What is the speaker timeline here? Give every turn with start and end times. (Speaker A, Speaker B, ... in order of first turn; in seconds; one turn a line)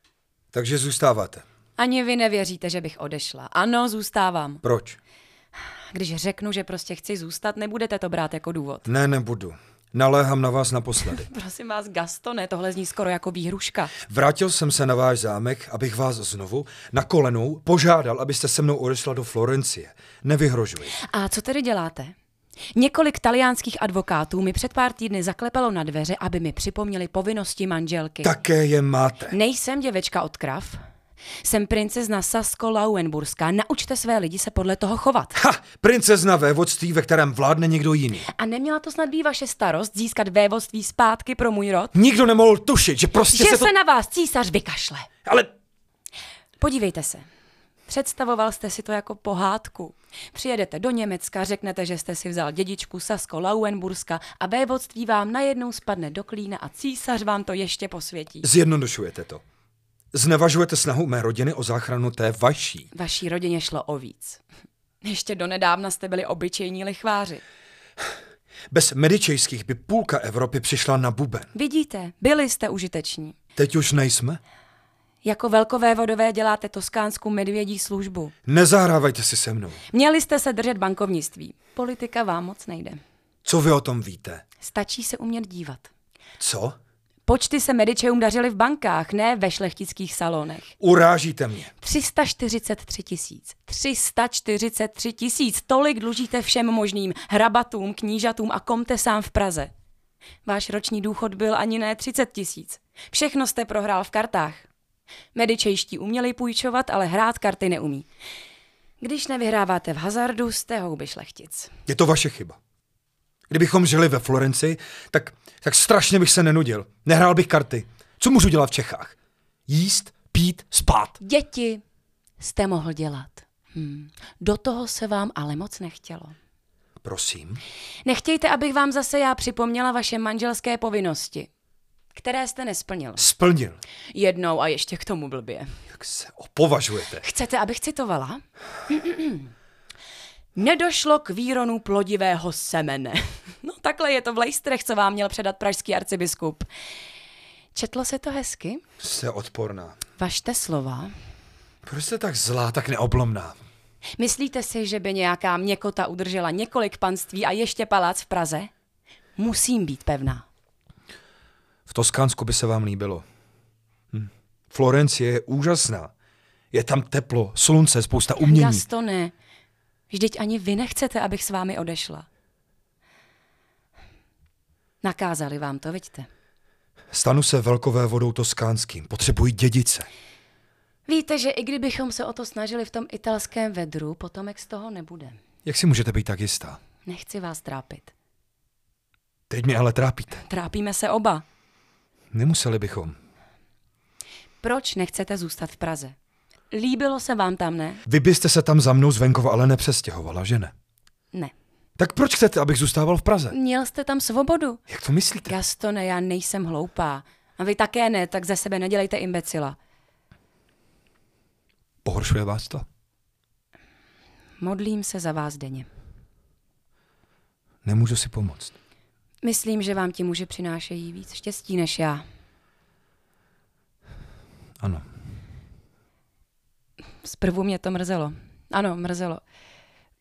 Speaker A: 0.5-1.4
Speaker B: 1.8-4.6
Speaker A: 4.6-5.0
Speaker B: 5.9-8.8
Speaker A: 8.8-11.3
Speaker B: 11.1-13.9
Speaker A: 14.0-20.9
Speaker B: 20.9-22.1
Speaker B: 22.7-28.3
Speaker A: 28.2-29.4
Speaker B: 29.3-30.8
Speaker B: 31.4-35.4
Speaker A: 35.4-38.3
Speaker B: 38.3-41.9
Speaker A: 41.9-43.7
Speaker B: 43.3-45.1
Speaker A: 45.2-45.5
Speaker B: 46.6-47.2
Speaker B: 47.9-58.5
Speaker A: 58.4-59.4
Speaker A: 60.1-62.9
Speaker B: 62.9-64.4
Speaker B: 65.0-67.4
Speaker A: 68.7-71.5
Speaker B: 71.5-73.3
Speaker A: 73.6-74.4
Speaker B: 75.2-78.3
Speaker A: 78.5-79.8
Speaker B: 79.9-83.0
Speaker A: 83.4-84.4
Speaker B: 84.6-85.9
Speaker A: 86.4-86.7
Speaker B: 87.2-90.7
Speaker A: 90.8-91.7
Speaker B: 91.8-99.7
Speaker B: 100.4-104.7
Speaker B: 105.3-108.1
Speaker B: 109.0-111.7
Speaker A: 111.9-112.6
Speaker A: 113.5-119.2
Speaker A: 119.7-121.2
Speaker B: 121.2-121.8
Speaker B: 122.4-126.3
Speaker A: 127.0-127.6
Speaker B: 128.0-131.5
Speaker B: 132.1-133.2
Speaker A: 133.2-133.8
Speaker B: 134.1-135.7
Speaker A: 135.9-137.2
Speaker B: 137.1-139.5
Speaker B: 140.6-146.7
Speaker B: 147.7-148.8
Speaker A: 149.0-150.0
Speaker B: 150.2-151.1
Speaker A: 151.8-153.6
Speaker B: 154.2-158.7
Speaker B: 159.4-160.4
Speaker A: 161.9-163.2
Speaker A: 164.1-166.1
Speaker A: 166.7-168.8
Speaker B: 168.4-169.3
Speaker B: 170.1-172.2
Speaker B: 175.0-176.3
Speaker A: 177.1-180.1
Speaker B: 181.1-185.4
Speaker A: 185.6-186.8
Speaker B: 187.0-188.1
Speaker A: 189.5-190.4
Speaker B: 190.3-191.4
Speaker A: 192.3-193.2
Speaker B: 194.6-196.1
Speaker B: 196.7-198.0
Speaker A: 198.1-200.7
Speaker A: 202.0-203.5
Speaker B: 203.5-204.8
Speaker A: 204.9-205.5
Speaker B: 205.5-209.8
Speaker A: 212.0-212.8
Speaker B: 214.6-215.9
Speaker A: 217.8-218.7
Speaker B: 219.4-222.2
Speaker A: 224.8-225.1
Speaker B: 227.2-229.4